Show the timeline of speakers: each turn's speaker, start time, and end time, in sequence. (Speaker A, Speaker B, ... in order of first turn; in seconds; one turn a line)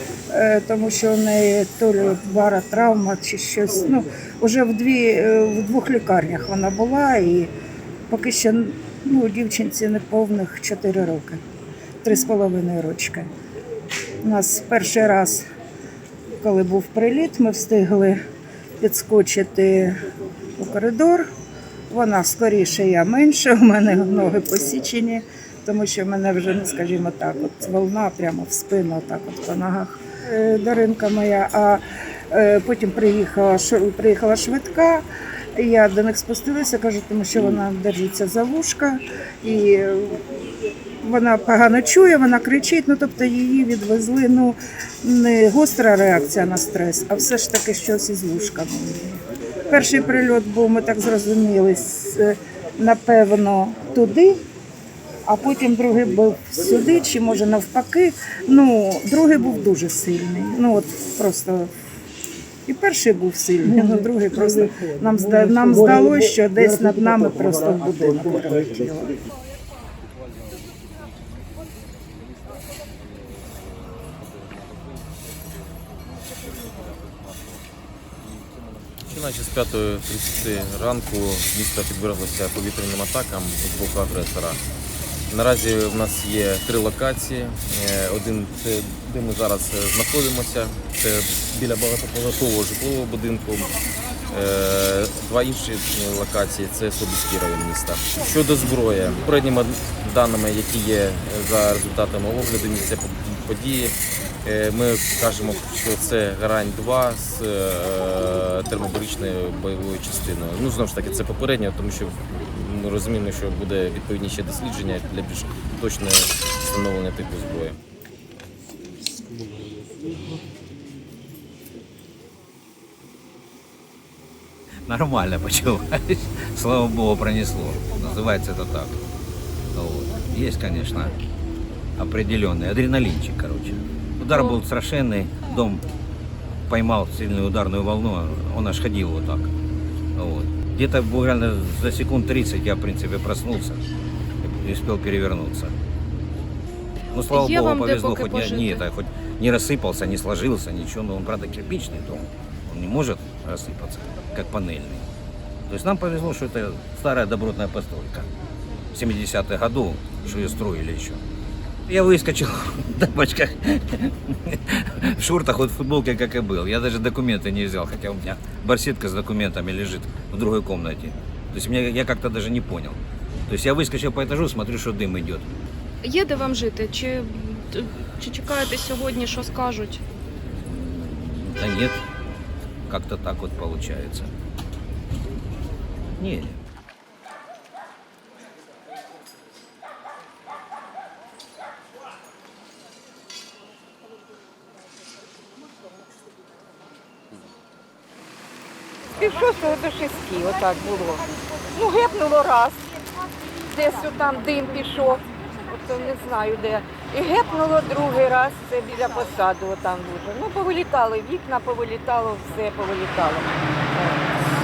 Speaker A: 0.3-7.5
Speaker A: 8.1-11.4
Speaker A: 12.0-13.3
Speaker A: 14.2-15.5
Speaker A: 16.4-18.2
Speaker A: 18.8-20.0
Speaker A: 20.6-21.3
Speaker A: 21.9-40.2
Speaker A: 41.0-54.4
Speaker A: 55.2-61.7
Speaker A: 62.7-69.1
Speaker B: 79.0-84.6
Speaker B: 85.3-93.7
Speaker B: 94.3-117.8
Speaker C: 124.8-129.0
Speaker C: 129.7-131.2
Speaker C: 132.0-135.8
Speaker D: 134.3-134.6
Speaker C: 136.7-139.5
Speaker C: 140.2-143.8
Speaker C: 144.4-145.7
Speaker C: 147.1-155.1
Speaker D: 147.3-148.8
Speaker C: 155.7-158.3
Speaker C: 158.9-161.2
Speaker C: 161.9-175.5
Speaker D: 176.0-180.0
Speaker C: 180.6-182.0
Speaker C: 182.9-184.3
Speaker C: 186.2-186.6
Speaker E: 199.2-202.9
Speaker E: 203.7-214.2